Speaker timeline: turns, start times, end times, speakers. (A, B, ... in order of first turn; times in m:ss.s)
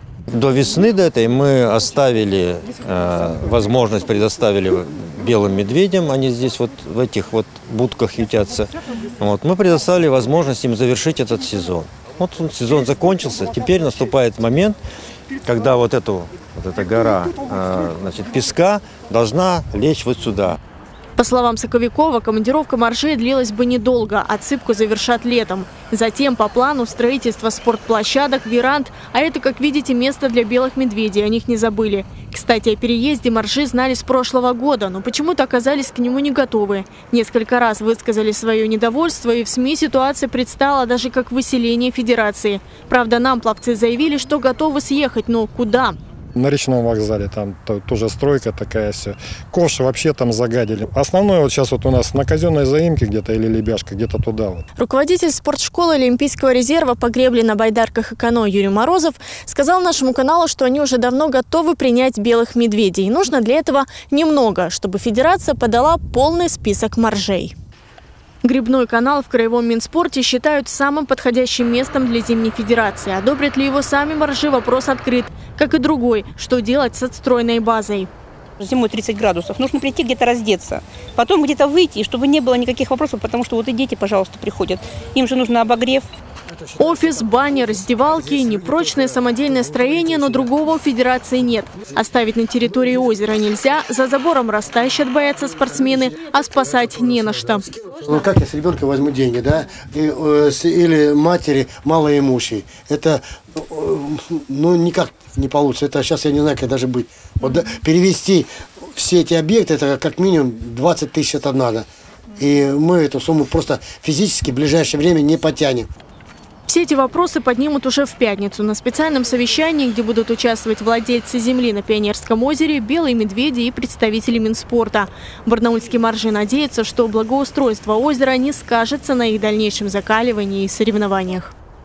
0:00.3-0:14.8 A
0:15.4-0:20.6 A
0:21.2-0:46.0 B
0:46.4-0:54.6 C
0:54.8-1:07.5 B
1:08.4-1:18.1 B
1:18.6-1:26.1 D
1:26.8-1:37.7 B
1:37.9-1:51.9 E
1:52.4-1:55.9 E
1:56.7-2:11.5 B